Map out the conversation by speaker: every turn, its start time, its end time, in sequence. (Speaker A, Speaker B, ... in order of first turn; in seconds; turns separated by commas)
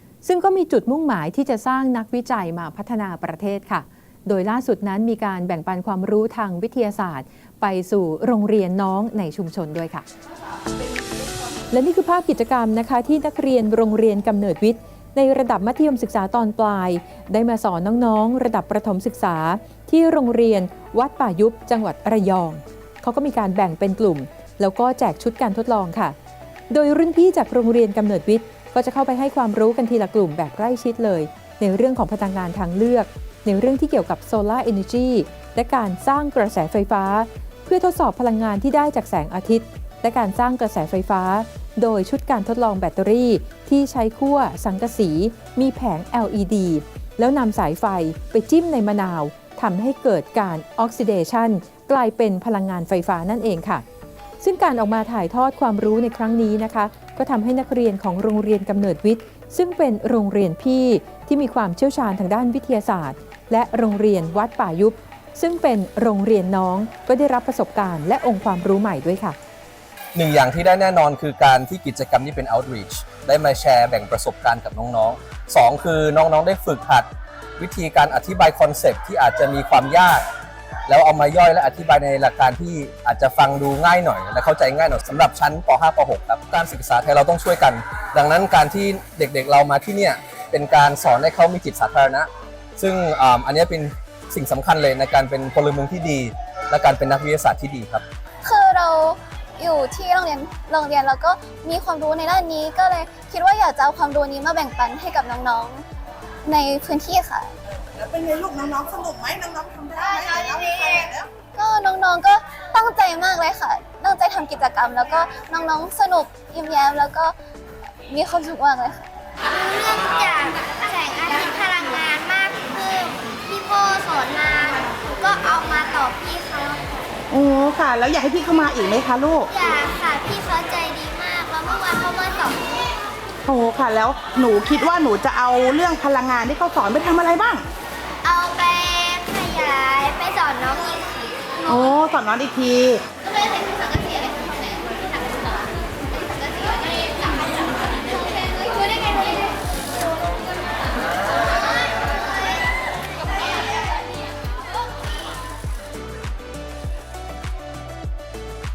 Speaker A: 0.2-10.1, Speaker A: 11.7-26.1, Speaker A: 26.7-53.8, Speaker A: 54.4-69.4, Speaker B: 70.1-80.2, Speaker B: 80.9-98.0, Speaker C: 98.4-105.8, Speaker C: 106.4-107.5, Speaker D: 108.0-111.3, Speaker C: 111.5-117.3, Speaker C: 118.1-119.1, Speaker E: 119.4-126.8, Speaker D: 127.3-129.5, Speaker E: 129.5-132.9, Speaker D: 133.5-137.7, Speaker E: 138.2-141.9, Speaker D: 141.7-143.1, Speaker E: 143.2-149.5, Speaker E: 151.6-151.9